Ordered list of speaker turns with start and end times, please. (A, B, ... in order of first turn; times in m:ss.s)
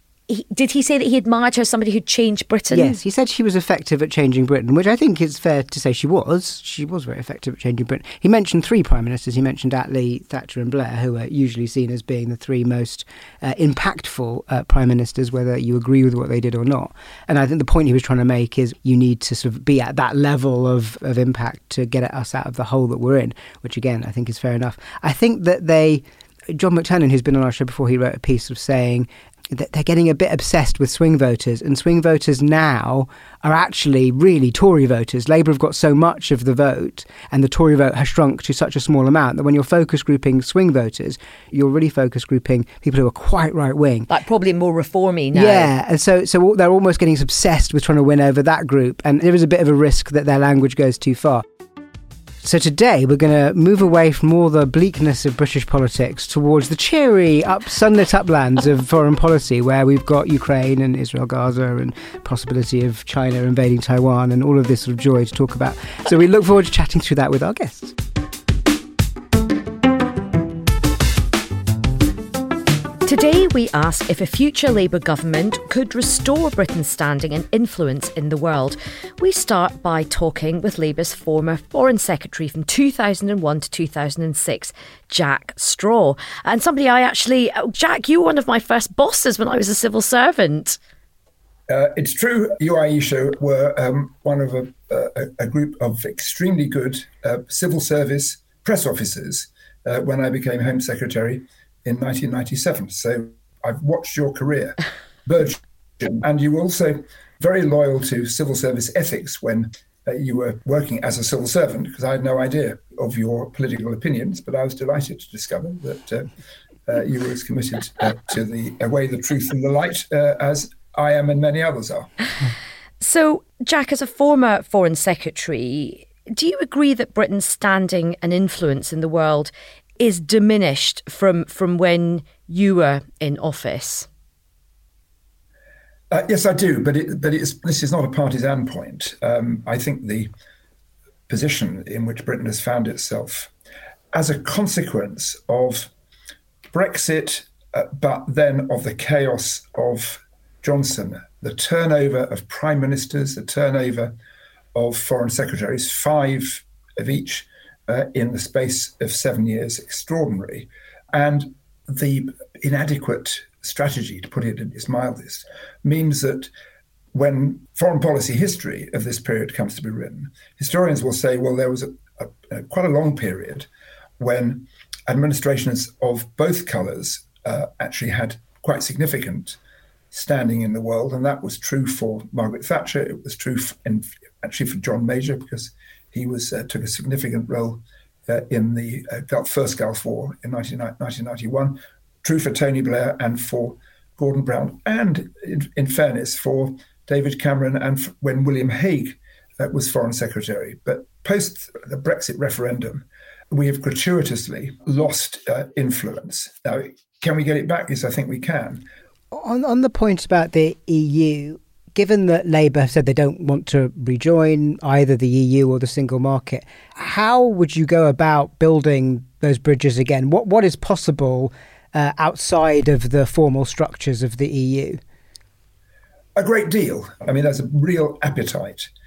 0:00.3-0:03.0 A
0:02.7-0:44.1 B
0:44.1-0:45.7 A
0:45.3-0:51.4 B
0:52.4-1:08.0 B
1:13.0-1:30.8 A
1:31.7-1:56.3 C
1:56.9-2:02.1 C
2:03.0-2:14.1 A
2:16.1-2:20.3 C
2:21.3-2:23.5 C
2:24.1-2:25.9 C
2:26.7-2:34.1 C
2:34.7-2:46.5 C
2:47.1-2:53.7 C
2:54.2-2:59.6 C
3:00.1-3:28.8 C
3:29.3-3:45.0 B
3:46.4-3:48.9 C